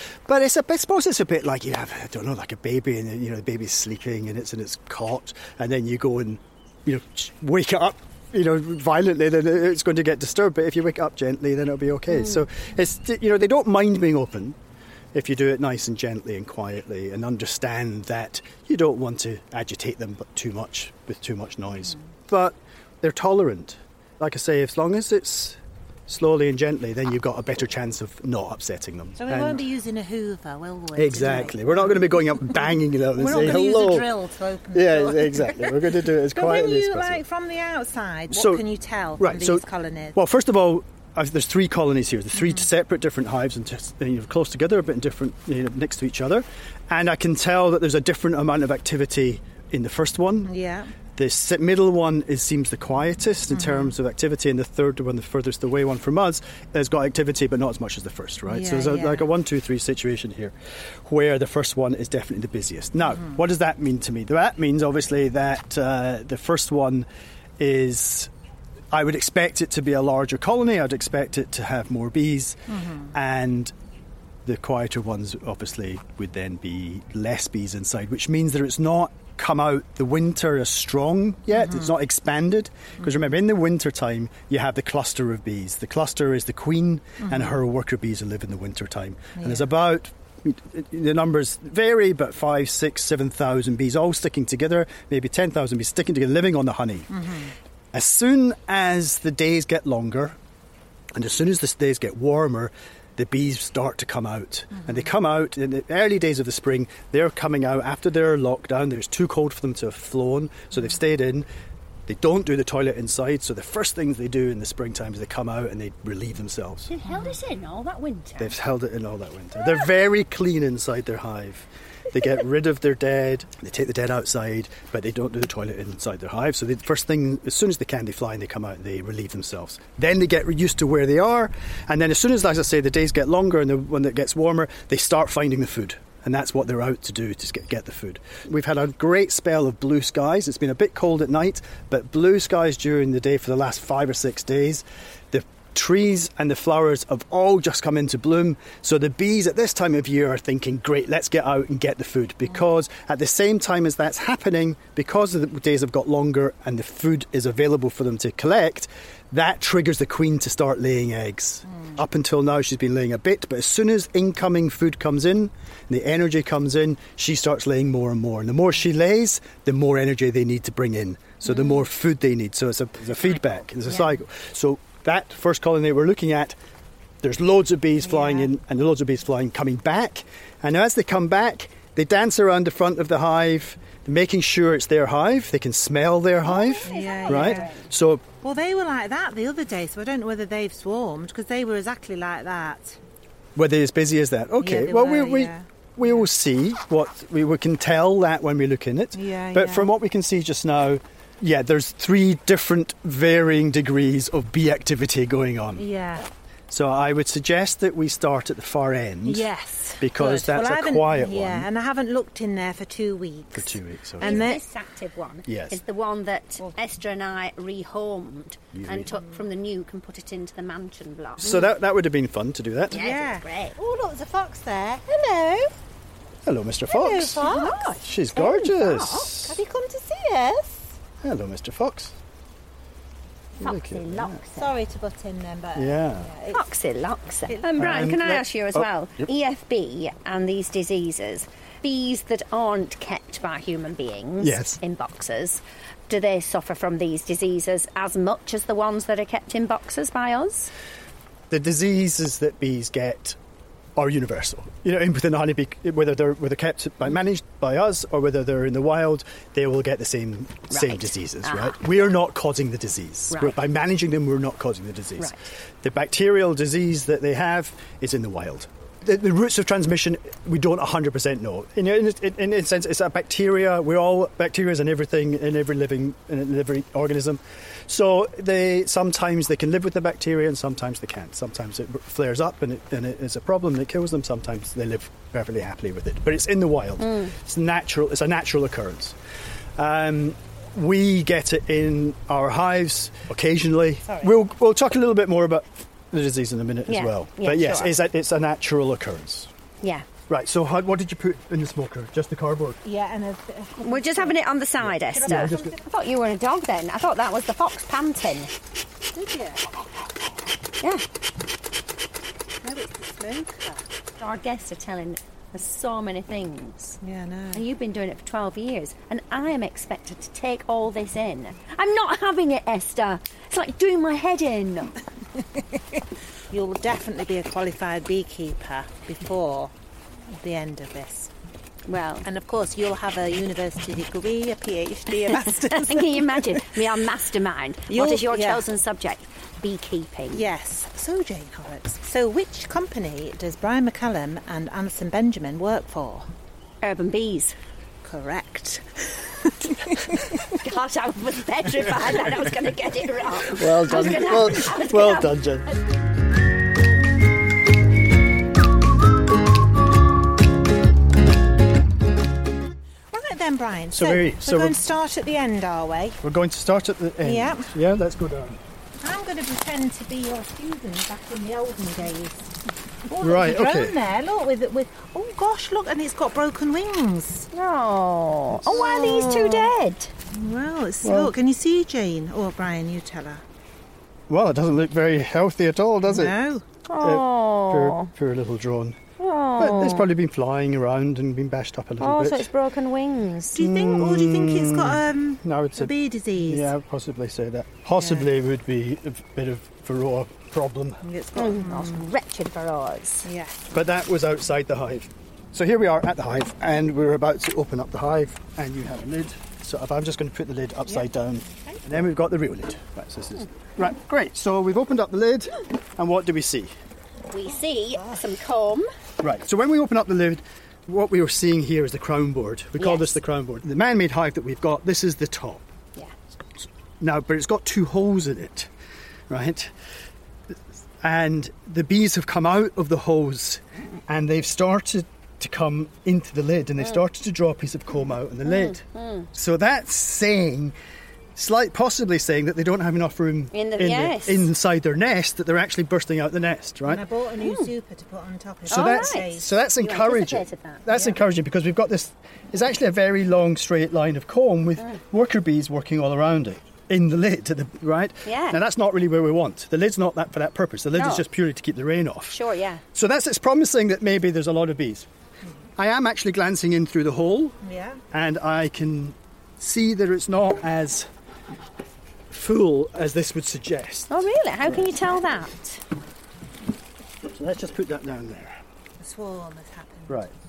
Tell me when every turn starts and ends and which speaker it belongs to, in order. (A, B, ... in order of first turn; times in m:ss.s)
0:00.3-0:14.6 A
0:15.1-0:29.6 A
0:29.2-0:32.0 B
0:30.9-0:34.1 A
0:33.1-0:40.2 B
0:34.7-0:37.2 A
0:38.3-0:38.6 A
0:39.2-0:39.6 A
0:40.1-0:50.5 A
0:50.4-0:50.9 B
0:51.2-1:07.1 A
0:53.5-0:53.9 B
0:58.5-0:59.2 B
1:07.6-1:08.3 A
1:08.9-1:13.7 A
1:12.7-1:13.1 B
1:14.4-1:37.1 A
1:21.6-1:21.9 B
1:27.2-1:27.5 B
1:29.4-1:29.7 B
1:37.1-1:37.5 B
1:37.9-1:40.4 A
1:41.1-1:51.5 A
1:44.7-1:45.1 B
1:52.1-1:56.9 A
1:56.9-1:58.6 C
1:58.4-2:56.6 A
2:57.2-3:08.2 A
2:58.0-2:58.5 B
3:06.5-3:07.8 C
3:06.8-3:07.7 B
3:08.4-3:13.0 B
3:13.6-3:25.9 A
3:14.6-3:16.1 B
3:19.1-3:19.9 B
3:25.8-3:26.3 B
3:26.7-3:29.4 A
3:29.2-3:34.6 B
3:30.0-3:31.7 A
3:33.5-3:34.5 A
3:34.2-3:41.6 C
3:35.5-3:35.8 A
3:38.7-3:39.1 A
3:41.4-3:43.0 A
3:42.9-3:43.8 C
3:42.9-3:45.8 B
3:46.4-3:47.4 A
3:46.9-3:47.9 B
3:47.4-3:49.2 C
3:48.0-3:49.6 A
3:49.0-3:51.0 B
3:51.2-3:52.1 A
3:53.6-3:54.4 A
3:53.6-3:54.7 C
3:54.5-3:56.6 B
3:55.7-3:56.3 A
3:56.5-4:10.7 C
3:57.5-3:58.0 B
3:57.8-3:59.3 A
4:04.4-4:04.8 A
4:11.5-4:13.4 A
4:14.0-4:49.2 A
4:20.7-4:22.0 C
4:23.3-4:23.6 C
4:47.0-4:47.3 C
4:49.8-4:59.5 A
4:54.0-4:54.3 B
4:56.9-4:57.9 C
5:00.3-5:02.8 A
5:02.8-5:04.4 B
5:03.8-5:08.5 C
5:04.8-5:05.7 A
5:05.1-5:05.8 B
5:09.1-5:09.6 B
5:12.6-5:13.8 B
5:14.2-5:17.0 C
5:17.0-5:17.6 B
5:17.5-5:24.9 C
5:26.5-5:29.7 B
5:30.4-5:31.3 B
5:31.9-5:32.2 C
5:32.2-5:36.7 B
5:35.3-5:40.4 C
5:37.9-5:38.6 B
5:40.3-5:46.3 B
5:46.8-5:47.6 C
5:48.0-5:50.4 B
5:50.4-5:55.4 C
5:53.6-5:55.7 A
6:03.1-6:06.2 B
6:03.9-6:04.8 A
6:06.2-6:08.6 A
6:07.2-6:07.7 B
6:09.0-6:12.6 B
6:13.1-6:17.5 B
6:13.2-6:13.9 A
6:17.5-6:20.1 C
6:18.7-6:19.7 B
6:20.3-6:23.4 B
6:21.0-6:21.3 A
6:24.3-6:26.4 A
6:26.0-6:26.6 B
6:26.8-6:28.1 C
6:27.0-6:29.0 A
6:29.2-6:30.1 C
6:29.6-6:32.5 A
6:32.0-6:33.6 C
6:33.5-6:36.7 B
6:33.6-6:41.0 A
6:38.0-6:38.3 B
6:41.0-6:42.0 B
6:41.4-6:43.3 C
6:43.2-6:43.6 B
6:43.7-6:56.7 A
6:57.3-6:58.9 C
6:59.2-7:05.6 A
7:02.8-7:03.2 C
7:07.0-7:08.7 A
7:09.3-7:09.7 A
7:11.0-7:20.7 A
7:18.4-7:19.3 C
7:21.3-7:27.0 A
7:23.5-7:24.5 C
7:26.9-7:29.5 B
7:27.4-7:27.7 C
7:28.7-7:30.9 C
7:28.7-7:42.4 A
7:38.2-7:38.6 C
7:40.9-7:41.2 C
7:42.3-7:42.8 C
7:42.9-7:45.1 A
7:45.8-7:47.6 A
7:47.6-7:48.0 B
7:48.1-7:51.1 A
7:52.3-7:54.8 A
7:54.1-7:55.8 C
7:57.3-7:58.6 A
7:59.0-8:00.2 B